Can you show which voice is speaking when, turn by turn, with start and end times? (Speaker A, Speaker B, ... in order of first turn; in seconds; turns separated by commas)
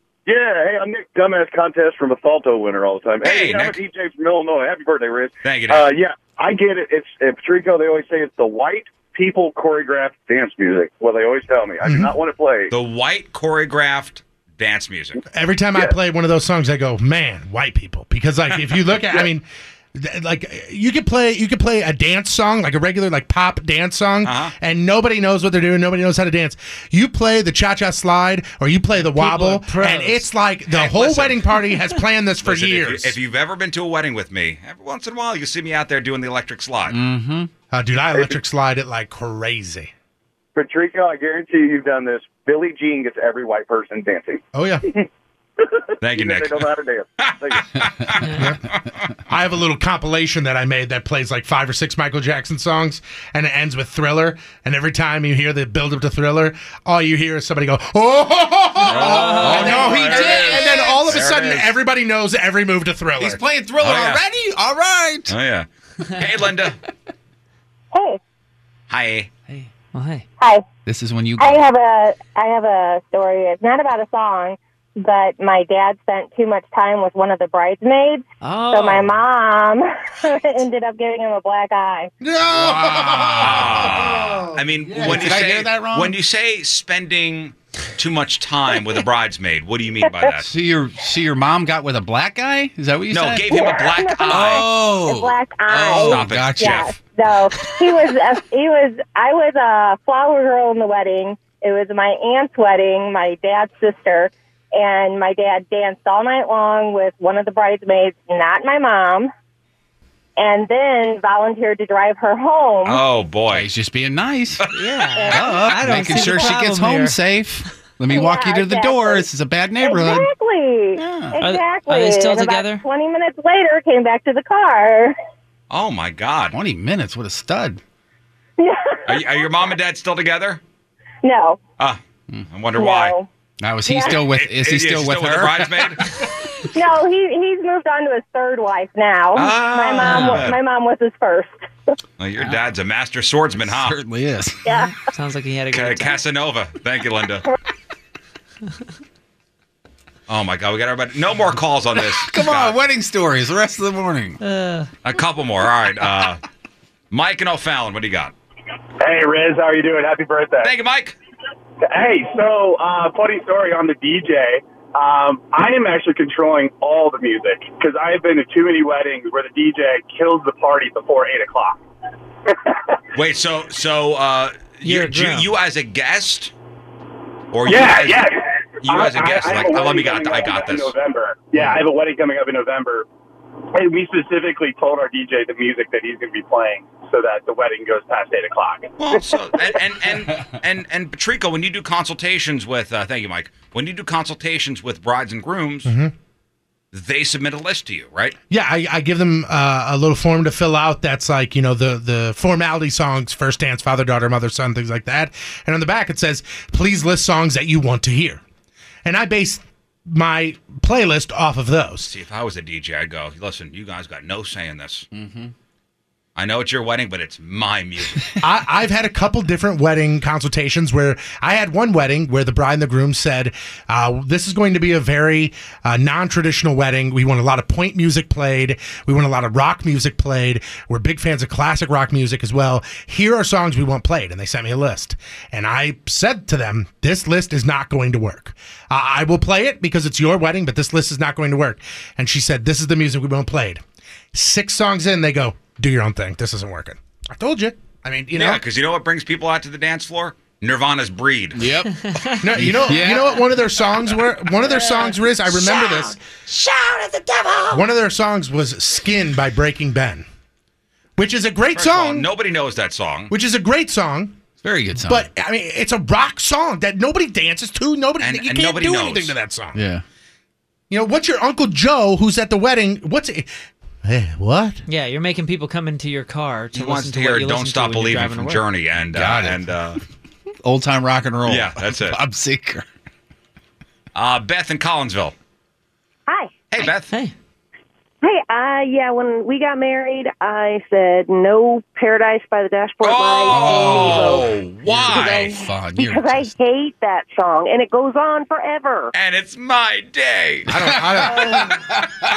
Speaker A: 0.2-12.7, Speaker B: 3.2-3.8, Speaker B: 5.4-5.9, Speaker C: 11.8-12.1, Speaker B: 12.7-15.2, Speaker C: 15.3-33.1, Speaker B: 24.2-24.5, Speaker D: 29.0-30.2, Speaker B: 30.7-31.4, Speaker B: 32.4-37.0, Speaker E: 36.9-37.5, Speaker C: 37.7-39.9, Speaker A: 40.5-45.0, Speaker C: 44.5-44.9, Speaker B: 46.0-46.7, Speaker A: 46.0-47.6, Speaker B: 47.3-48.2, Speaker D: 48.2-48.5, Speaker C: 49.3-63.4, Speaker B: 58.9-61.7, Speaker D: 58.9-59.9, Speaker E: 59.0-61.4, Speaker E: 63.2-65.3, Speaker B: 63.8-64.2, Speaker B: 65.3-66.8, Speaker F: 67.9-68.2, Speaker B: 68.9-69.3, Speaker D: 69.5-70.2, Speaker E: 70.8-71.6, Speaker F: 71.4-82.1, Speaker D: 78.4-79.1, Speaker C: 82.2-84.5, Speaker E: 82.5-84.1, Speaker B: 83.4-90.5, Speaker E: 84.9-86.1, Speaker E: 90.5-96.8, Speaker B: 93.1-94.7, Speaker F: 93.5-109.3, Speaker B: 95.8-96.9, Speaker F: 110.4-113.0, Speaker B: 112.8-113.7, Speaker E: 113.5-114.6, Speaker D: 114.7-117.2, Speaker F: 115.1-116.2, Speaker E: 115.3-120.3, Speaker F: 118.1-119.3, Speaker F: 119.8-125.1, Speaker E: 121.0-121.4, Speaker D: 121.4-122.8, Speaker B: 125.7-126.5, Speaker E: 126.5-127.8, Speaker F: 128.6-129.6, Speaker B: 129.1-130.6, Speaker F: 131.2-131.6, Speaker B: 132.5-133.2, Speaker F: 132.7-133.3, Speaker E: 133.6-135.8, Speaker F: 133.9-134.2, Speaker B: 134.3-136.1, Speaker F: 136.7-141.5, Speaker B: 139.3-140.6, Speaker D: 140.0-140.5, Speaker B: 142.2-143.9, Speaker E: 143.7-144.6, Speaker F: 144.7-144.9, Speaker D: 144.8-146.2, Speaker B: 145.7-147.4, Speaker B: 150.3-152.8, Speaker E: 152.2-154.4, Speaker D: 154.4-154.9, Speaker B: 155.0-156.4, Speaker B: 157.1-158.3, Speaker G: 159.0-160.7, Speaker B: 160.6-161.1, Speaker G: 161.9-171.8, Speaker B: 173.1-176.5, Speaker D: 174.8-175.5, Speaker B: 177.5-181.0, Speaker G: 177.7-183.0, Speaker G: 183.8-188.9, Speaker B: 189.0-195.9, Speaker C: 195.8-196.1, Speaker B: 196.9-198.3, Speaker C: 198.5-208.4, Speaker C: 209.0-212.1, Speaker B: 212.0-215.1, Speaker E: 215.1-215.5, Speaker B: 216.3-218.3, Speaker C: 218.4-243.8, Speaker C: 244.3-248.6, Speaker B: 248.3-251.6, Speaker E: 251.5-251.9, Speaker D: 252.0-252.4, Speaker C: 252.4-256.2, Speaker E: 252.5-253.5, Speaker H: 254.7-257.8, Speaker C: 257.7-260.2, Speaker C: 261.2-262.3, Speaker B: 261.7-263.3, Speaker C: 263.3-264.4, Speaker E: 264.6-265.2, Speaker C: 265.0-269.8, Speaker B: 268.2-269.3, Speaker E: 269.7-270.0, Speaker C: 270.9-273.5, Speaker C: 274.0-274.8, Speaker D: 274.9-278.6, Speaker B: 276.7-280.0, Speaker E: 279.1-279.6, Speaker E: 280.6-282.8, Speaker B: 281.4-282.2, Speaker B: 284.1-285.3, Speaker B: 286.7-287.1, Speaker D: 287.1-287.3, Speaker H: 288.2-294.5, Speaker B: 293.0-295.5, Speaker E: 293.5-296.5, Speaker H: 295.1-299.1, Speaker B: 299.1-300.7, Speaker C: 300.7-301.6, Speaker E: 300.7-301.7